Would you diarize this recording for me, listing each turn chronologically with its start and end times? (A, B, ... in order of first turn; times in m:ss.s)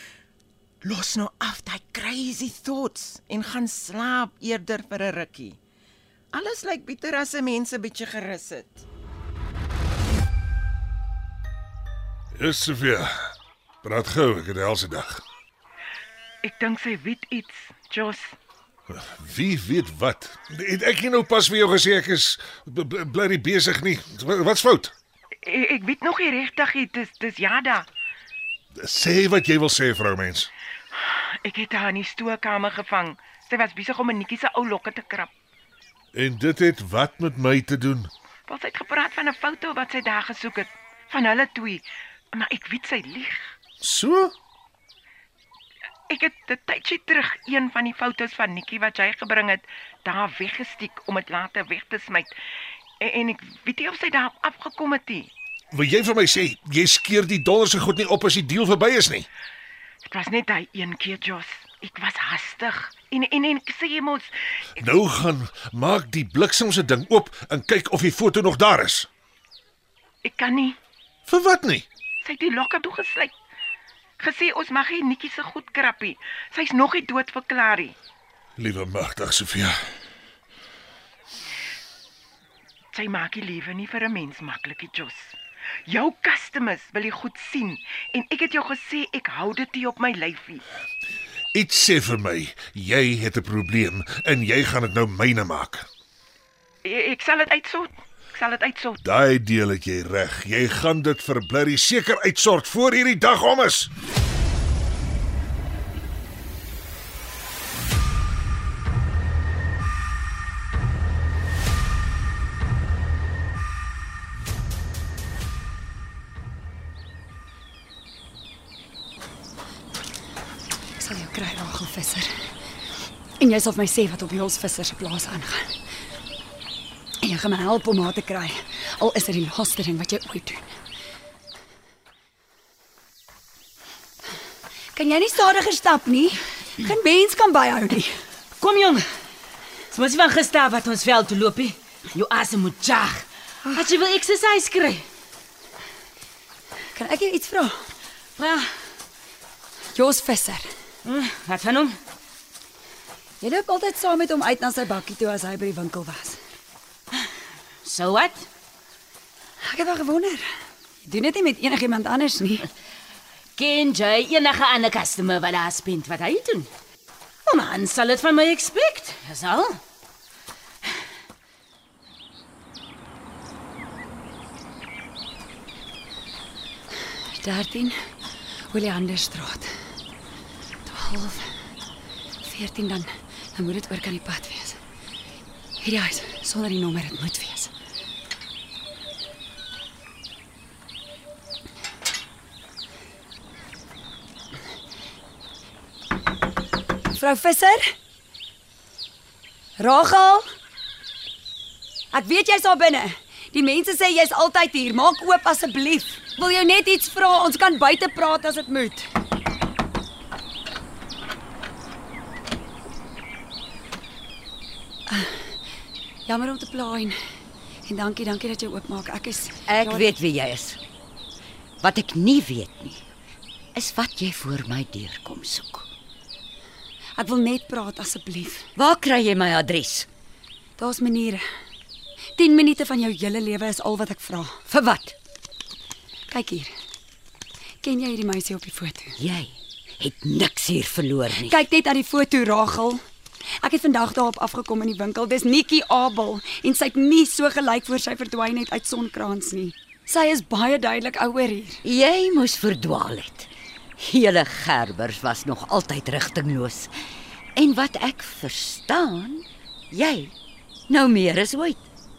0:00.8-0:05.6 A
0:06.3-0:08.9 A
0:12.4-0:15.2 B
0:16.4-0:18.4 A
0:18.9-0:24.9 B
0:25.4-0:27.9 A
0:28.8-0:30.5 B
0:31.0-0:35.3 A
0:36.2-0:38.1 B
0:38.5-0:43.6 A
0:43.8-0:44.3 B
0:46.1-0:52.3 A
0:53.0-0:55.3 A
0:55.7-0:59.3 B
1:00.0-1:04.3 A
1:04.8-1:09.1 B
1:10.2-1:10.8 A
1:11.3-1:11.9 B
1:12.2-1:13.3 A
1:14.2-1:18.0 A
1:18.6-1:19.8 B
1:22.9-1:25.4 A
1:25.9-1:30.6 A
1:31.5-1:35.9 B
1:36.8-1:39.0 A
1:39.0-1:43.9 B
2:01.0-2:02.5 C
2:03.4-2:05.8 C
2:07.2-2:10.7 C
2:15.0-2:18.2 C
2:18.6-2:19.1 D
2:19.9-2:25.0 D
2:27.0-2:27.9 C
2:28.4-2:28.8 D
2:30.0-2:30.7 C
2:31.0-2:32.0 D
2:33.4-2:36.4 C
2:37.8-2:38.5 D
2:39.6-2:40.5 C
2:41.0-2:42.7 C
2:43.6-2:46.7 D
2:47.5-2:49.8 D
2:57.3-2:58.0 C
2:58.7-2:59.7 C
3:00.9-3:01.5 C
3:02.4-3:04.8 C
3:05.8-3:07.7 C
3:17.1-3:18.0 C
3:19.8-3:20.5 C
3:22.1-3:29.1 C
3:35.1-3:35.6 C
3:36.3-3:37.2 C
3:37.9-3:40.1 C
3:39.7-3:40.8 E
3:41.8-3:43.0 E
3:43.8-3:45.9 E
3:47.2-3:48.7 C
3:48.8-3:50.1 E
3:50.8-3:51.4 C
3:52.4-3:54.7 C
3:54.7-3:55.2 E
3:56.3-3:56.7 C
3:57.8-3:59.2 C
3:59.2-4:01.6 E
4:01.4-4:03.0 C
4:03.6-4:11.8 C
4:11.8-4:16.9 E
4:17.6-4:20.3 E
4:20.9-4:21.9 E